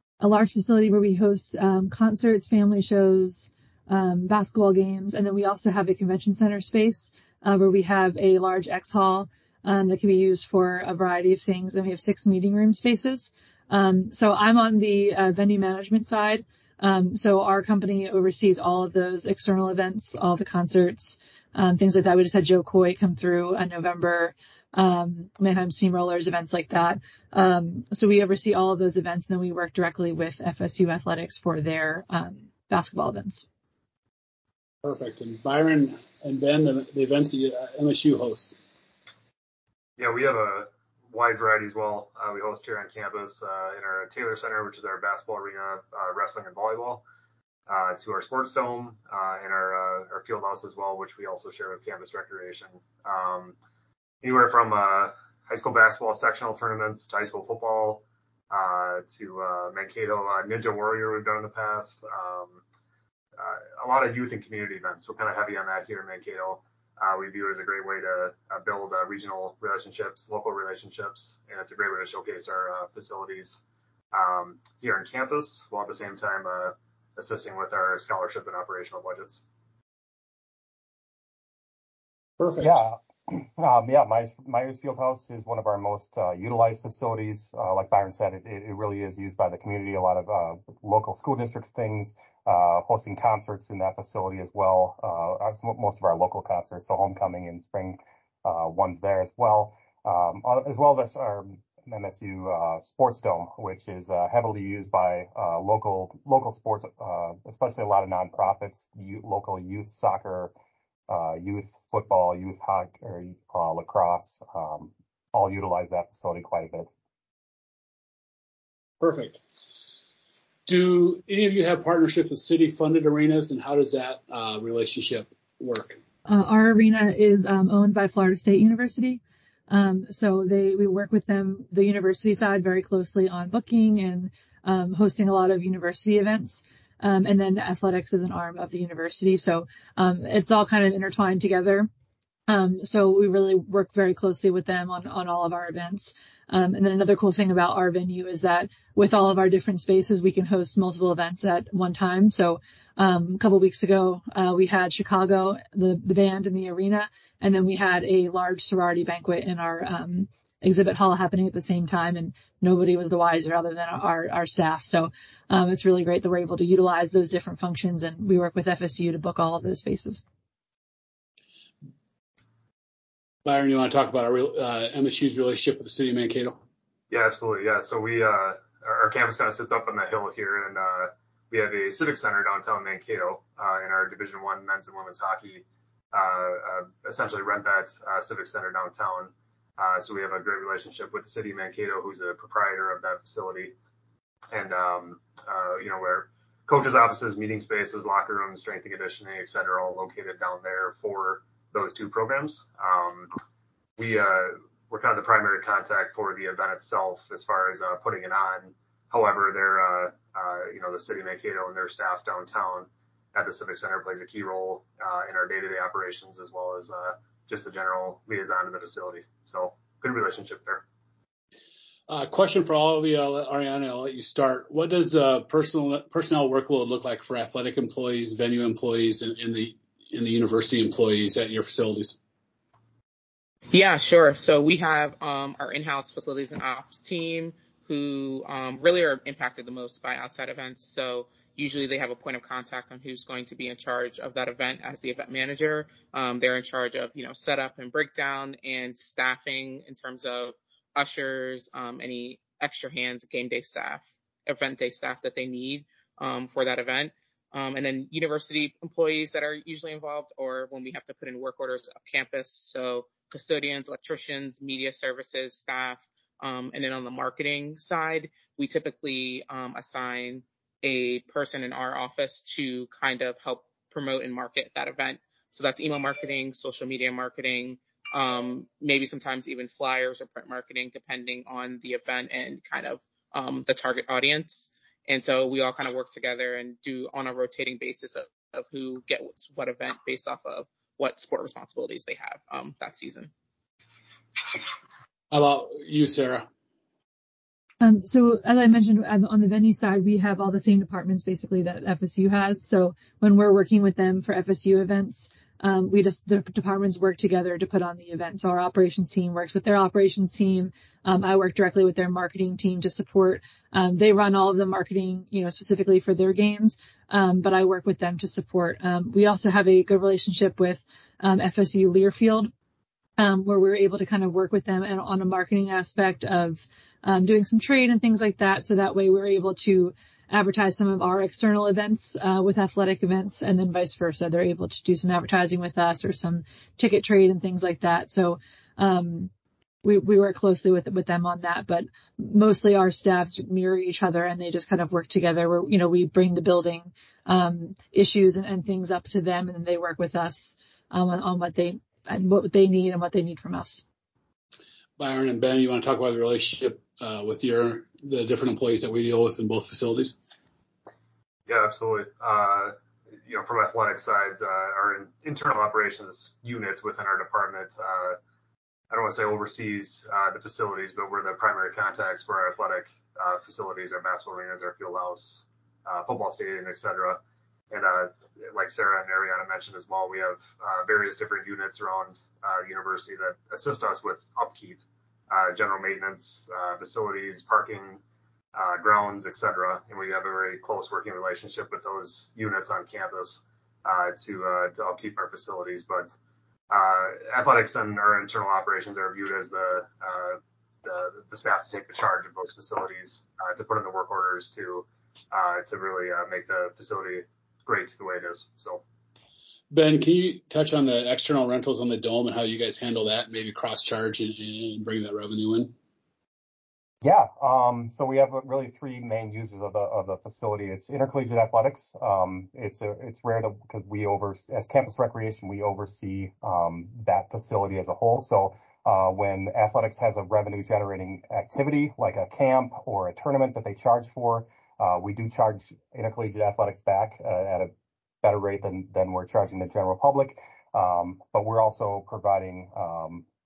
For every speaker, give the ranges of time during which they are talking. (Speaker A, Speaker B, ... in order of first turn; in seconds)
Speaker A: 0.2-33.4, 126.2-141.9, 142.5-170.2, 297.8-322.5, 323.2-339.3, 339.8-353.8
Speaker B: 34.8-38.5, 82.4-82.8, 119.0-119.4, 120.7-126.0, 173.4-176.6, 222.1-232.2, 295.3-296.4, 355.0-360.1, 409.7-415.7
Speaker C: 40.0-47.0, 47.7-53.5, 54.2-62.6, 63.4-73.6, 74.1-79.4, 177.1-193.8, 194.5-203.3, 204.0-220.8, 361.5-368.2, 368.9-388.0, 388.5-396.1, 396.7-408.8
Speaker D: 82.6-110.5, 111.1-116.9, 417.0-437.7, 438.2-443.2
Speaker E: 233.7-293.3